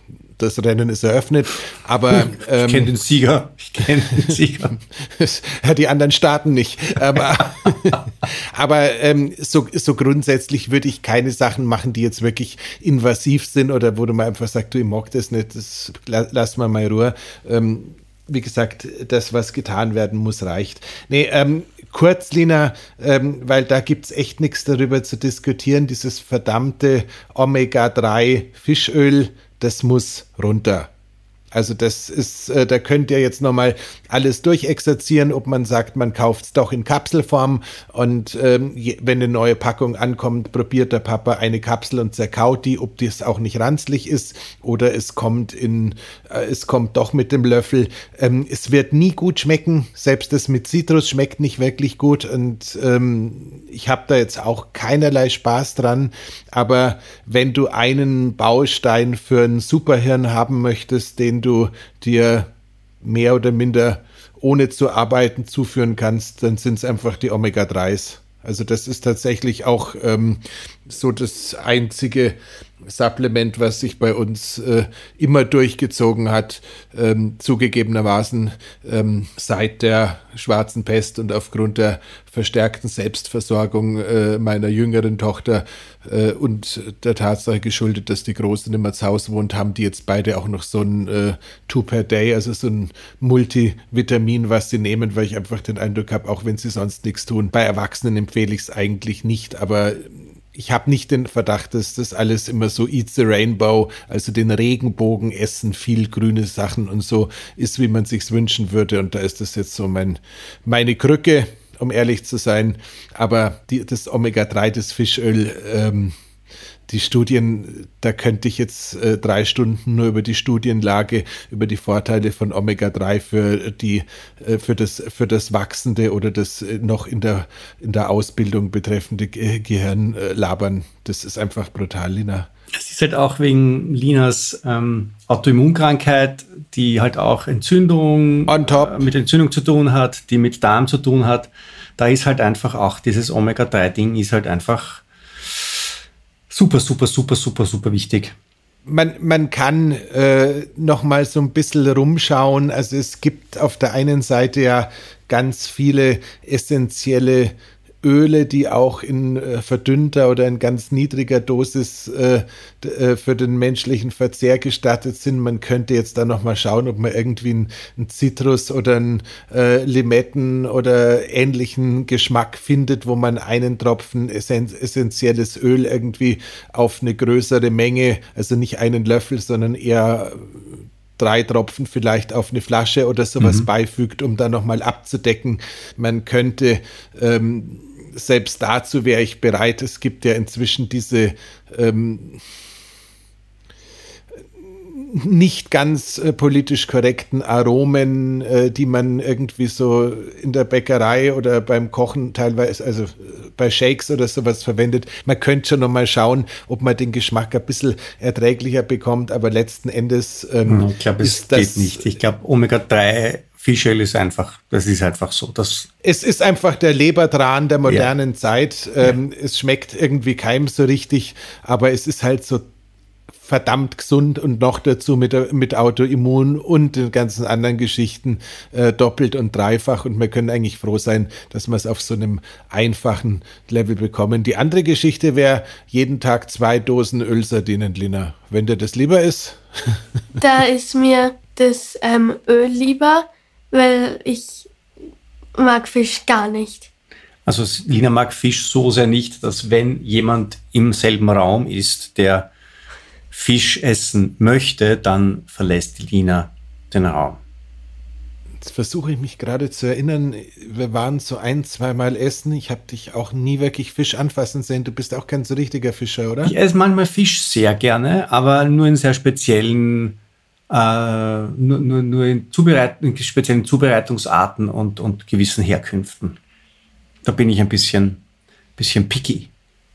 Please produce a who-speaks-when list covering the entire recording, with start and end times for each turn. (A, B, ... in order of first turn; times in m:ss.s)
0:00.4-0:03.0 A
0:02.1-0:04.8 B
0:05.0-0:30.9 A
0:31.5-1:02.5 A
1:03.0-1:56.1 A
1:56.9-2:12.5 A
2:12.7-2:25.9 B
2:18.5-2:19.0 A
2:26.5-2:28.4 B
2:28.9-3:12.4 A
3:03.4-3:03.7 B
3:14.9-3:32.1 A
3:30.7-3:35.9 B
3:36.0-3:42.6 A
3:43.4-4:00.0 A
4:00.4-4:04.7 C
4:05.6-4:06.9 C
4:07.4-4:12.5 B
4:13.3-4:17.4 B
4:18.6-4:26.5 A
4:26.4-4:30.2 B
4:30.7-4:36.4 B
4:37.2-4:38.2 B
4:38.8-4:39.5 B